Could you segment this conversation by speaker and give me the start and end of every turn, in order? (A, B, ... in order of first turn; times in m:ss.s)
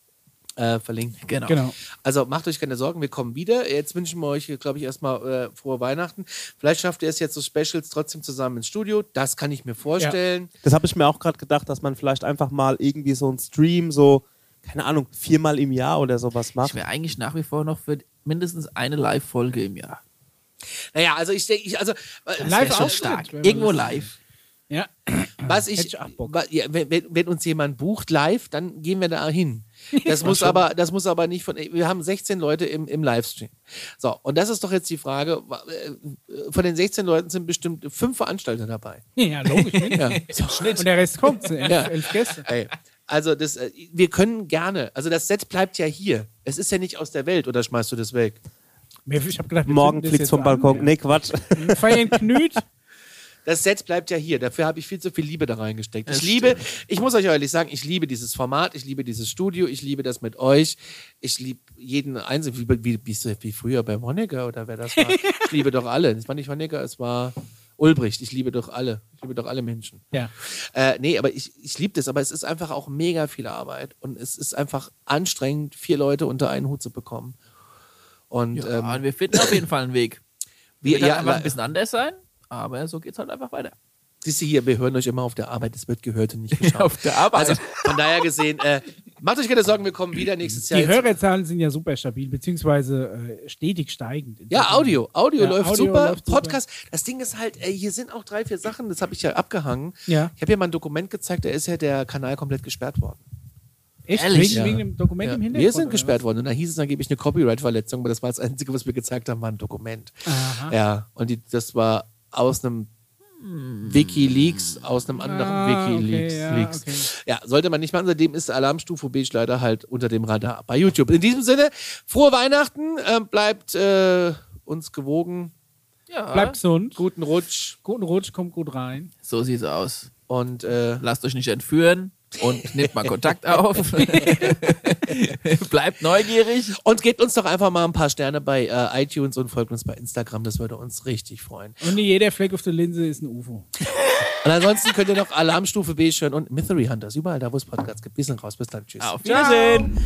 0:00.6-0:01.2 A
0:01.2-0:01.6 B
0:01.5-0:01.8 C
0:02.0-0:10.5 A
0:10.6-0:16.8 D
0:16.6-0:20.0 B
0:20.9-0:23.1 A
0:22.4-0:24.1 B
0:22.4-0:24.1 C
0:24.7-0:26.3 C
0:25.4-0:39.0 A
0:29.9-0:30.6 C
0:39.2-0:40.2 C
0:39.5-0:40.9 A
0:40.8-0:42.5 C
0:41.6-0:48.4 A
0:49.1-0:50.9 C
0:49.6-0:52.4 D
0:51.5-0:52.6 C
0:53.4-1:17.4 A
0:56.1-0:56.6 B
1:18.3-1:19.6 A
1:18.5-1:20.2 B
1:20.8-1:21.5 A
1:20.8-1:23.7 B
1:24.2-1:31.0 A
1:26.5-1:28.2 B
1:30.7-1:36.6 C
1:34.5-1:43.2 A
1:40.1-1:40.3 C
1:44.0-1:46.2 C
1:44.1-1:44.7 B
1:44.5-1:52.9 A
1:50.2-1:50.7 C
1:53.4-1:54.4 B
1:53.9-2:05.5 A
1:55.2-1:57.1 C
2:06.1-2:06.6 B
2:06.3-2:07.0 C
2:07.0-2:07.8 A
2:07.8-2:09.1 C
2:09.2-2:10.1 B
2:10.3-2:11.0 A
2:11.0-2:16.8 B
2:14.2-2:14.5 A
2:16.8-2:21.8 A
2:21.8-2:23.7 C
2:24.4-2:29.1 A
2:29.0-2:29.9 B
2:29.2-2:29.9 D